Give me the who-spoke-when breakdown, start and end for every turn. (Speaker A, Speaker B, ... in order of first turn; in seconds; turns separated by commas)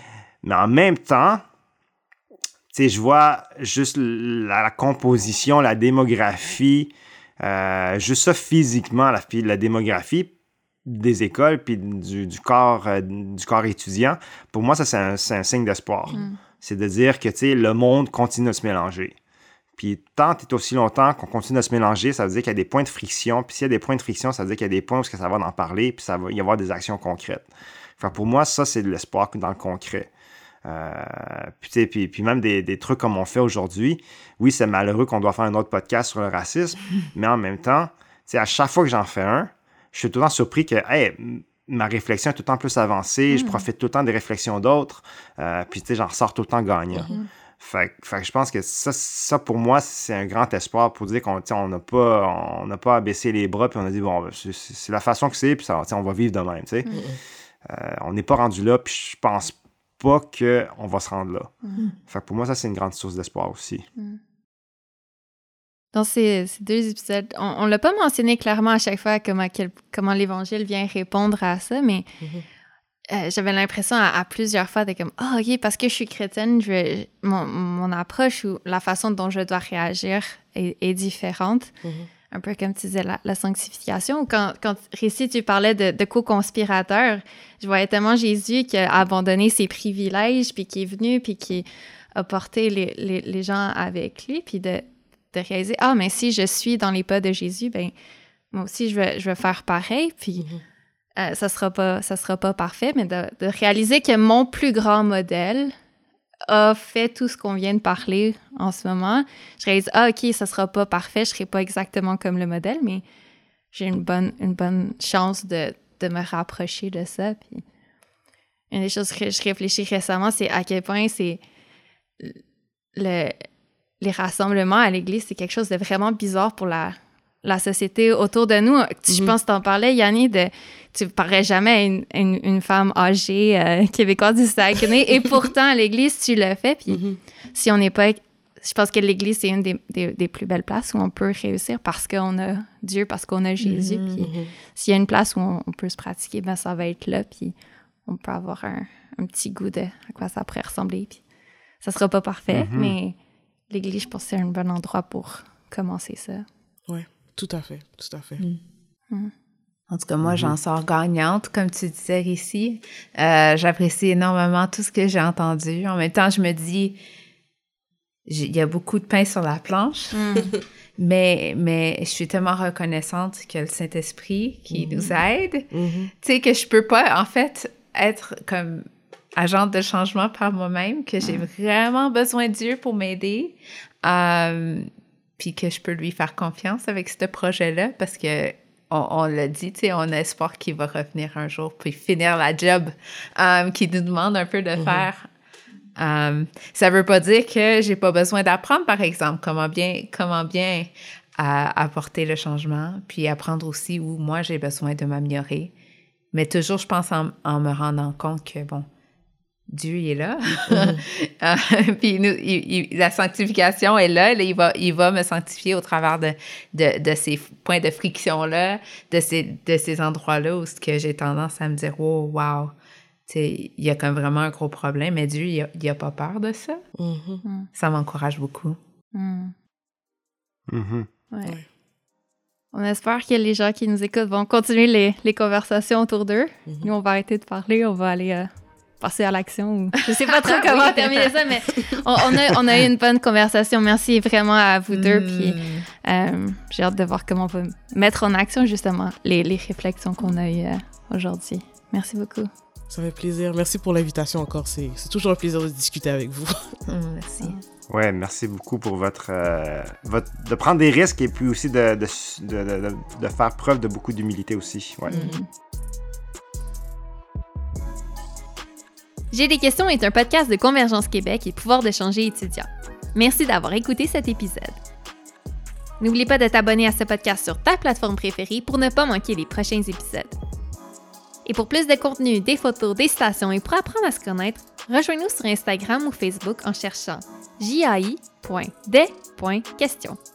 Speaker A: 0.4-1.4, Speaker A: 2.7-10.3, Speaker A: 10.8-19.1, Speaker B: 16.1-16.4, Speaker A: 19.8-27.5, Speaker A: 28.0-30.1, Speaker A: 30.6-56.9, Speaker B: 43.3-43.6, Speaker C: 56.9-57.2, Speaker A: 57.6-63.9, Speaker B: 65.9-72.0, Speaker B: 73.1-81.7, Speaker C: 81.8-82.1, Speaker B: 82.3-97.9, Speaker B: 98.5-100.5, Speaker B: 101.2-105.7, Speaker B: 106.5-113.0, Speaker B: 113.7-117.6, Speaker B: 118.7-121.4, Speaker B: 122.9-123.4, Speaker B: 124.0-137.0, Speaker C: 129.1-129.3, Speaker C: 136.9-137.2, Speaker B: 137.5-151.2, Speaker D: 143.6-144.3, Speaker C: 144.2-144.5, Speaker B: 151.8-153.2, Speaker A: 152.5-152.9, Speaker B: 153.7-156.4, Speaker C: 156.9-158.4, Speaker D: 159.9-167.0, Speaker A: 160.2-160.5, Speaker D: 168.3-170.2, Speaker B: 170.1-170.5, Speaker D: 171.0-195.3, Speaker C: 174.7-175.0, Speaker C: 175.7-176.1, Speaker C: 194.8-195.1, Speaker D: 196.0-205.7, Speaker D: 206.3-208.9, Speaker D: 209.7-222.7, Speaker C: 210.7-211.0, Speaker D: 223.3-226.8, Speaker C: 226.9-227.4, Speaker B: 227.4-227.7, Speaker D: 227.7-228.8, Speaker B: 229.1-229.5, Speaker A: 230.7-231.1, Speaker B: 231.3-231.6, Speaker B: 232.7-252.5, Speaker D: 240.1-241.3, Speaker D: 244.9-245.8, Speaker C: 252.9-256.8, Speaker D: 256.9-257.6, Speaker A: 257.9-265.1, Speaker D: 265.1-265.3, Speaker B: 265.1-265.4, Speaker B: 269.3-274.8, Speaker B: 276.0-280.3, Speaker B: 281.4-290.2